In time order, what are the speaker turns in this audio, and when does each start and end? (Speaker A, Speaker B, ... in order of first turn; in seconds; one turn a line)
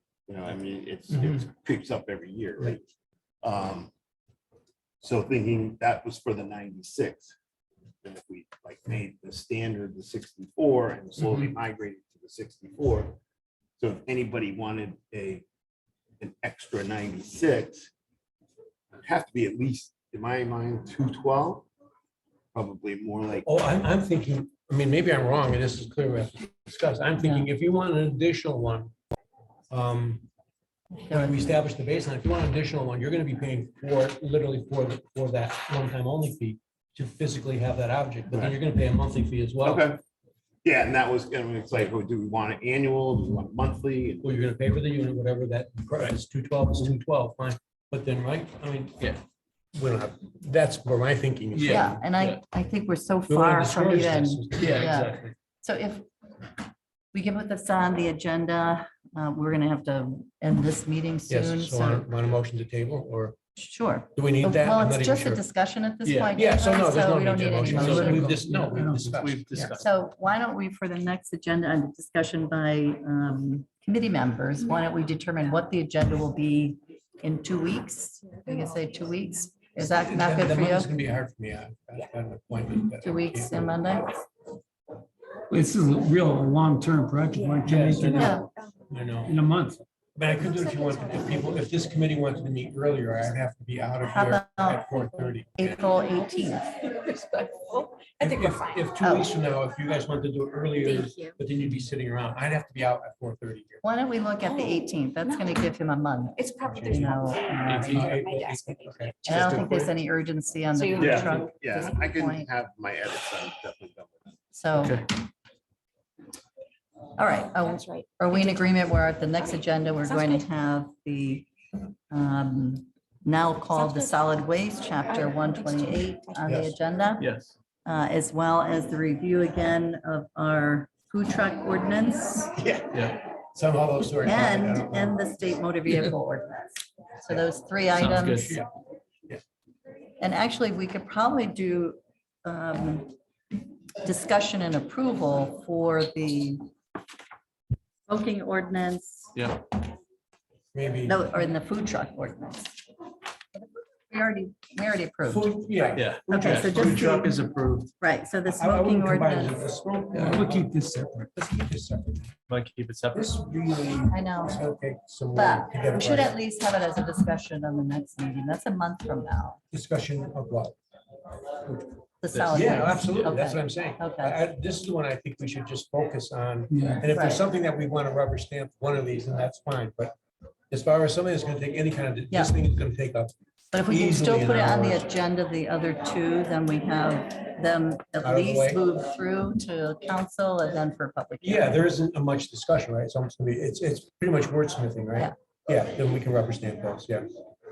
Speaker A: 0.3-2.8
Speaker B: 1.1-1.4
Speaker A: 3.4-3.9
Speaker A: 5.0-7.3
Speaker A: 8.0-13.2
Speaker B: 11.2-11.5
Speaker A: 13.8-15.4
Speaker A: 16.2-17.9
Speaker A: 19.0-21.7
Speaker A: 22.5-23.5
Speaker B: 23.4-28.9
Speaker C: 27.2-27.5
Speaker B: 29.7-30.3
Speaker C: 31.0-31.5
Speaker B: 31.1-39.9
Speaker A: 39.6-40.0
Speaker A: 40.6-44.2
Speaker B: 44.2-49.1
Speaker B: 49.7-52.0
Speaker D: 51.5-52.4
Speaker C: 51.7-56.1
Speaker B: 53.3-55.3
Speaker D: 54.6-55.2
Speaker C: 57.1-62.1
Speaker B: 61.3-63.4
Speaker C: 63.6-68.4
Speaker B: 64.2-65.4
Speaker D: 66.0-66.3
Speaker B: 66.3-69.8
Speaker D: 67.8-69.9
Speaker E: 68.2-69.0
Speaker C: 69.8-80.9
Speaker B: 79.8-83.6
Speaker C: 83.0-84.3
Speaker E: 85.5-88.3
Speaker F: 87.3-88.8
Speaker B: 87.7-89.4
Speaker C: 88.2-88.4
Speaker E: 89.3-89.8
Speaker B: 90.2-95.9
Speaker F: 90.4-91.6
Speaker C: 94.0-94.9
Speaker C: 95.6-96.8
Speaker F: 96.8-99.0
Speaker B: 98.2-103.8
Speaker C: 99.0-99.3
Speaker F: 100.8-101.3
Speaker C: 103.8-108.1
Speaker F: 104.4-105.5
Speaker F: 106.4-109.6
Speaker B: 106.7-110.0
Speaker D: 107.7-108.0
Speaker C: 109.3-112.5
Speaker F: 110.7-111.9
Speaker A: 111.0-114.2
Speaker C: 114.5-115.0
Speaker D: 114.8-115.1
Speaker C: 117.2-121.5
Speaker F: 117.6-118.7
Speaker F: 120.0-120.5
Speaker C: 122.1-127.3
Speaker F: 123.7-124.2
Speaker F: 125.1-126.6
Speaker B: 126.5-126.8
Speaker D: 127.2-127.5
Speaker C: 127.8-132.6
Speaker B: 132.6-135.2
Speaker D: 132.9-133.2
Speaker C: 134.2-138.6
Speaker D: 138.0-138.6
Speaker C: 140.2-143.2
Speaker C: 144.0-146.6
Speaker C: 148.1-149.4
Speaker D: 149.3-149.6
Speaker B: 150.7-151.2
Speaker C: 151.1-152.8
Speaker C: 153.6-155.5
Speaker B: 155.3-157.3
Speaker D: 155.9-157.9
Speaker C: 156.3-157.3
Speaker C: 158.0-159.6
Speaker B: 158.5-160.8
Speaker E: 160.1-161.3
Speaker B: 161.3-162.3
Speaker D: 162.5-163.4
Speaker B: 163.1-166.3
Speaker C: 164.1-164.6
Speaker C: 165.3-169.6
Speaker B: 169.7-170.8
Speaker B: 171.6-171.9
Speaker C: 172.2-174.4
Speaker D: 172.3-173.0
Speaker B: 172.5-180.1
Speaker E: 176.7-177.0
Speaker C: 177.0-177.4
Speaker B: 180.7-183.3
Speaker C: 183.7-191.9
Speaker B: 183.9-185.1
Speaker B: 188.2-188.8
Speaker B: 191.4-197.3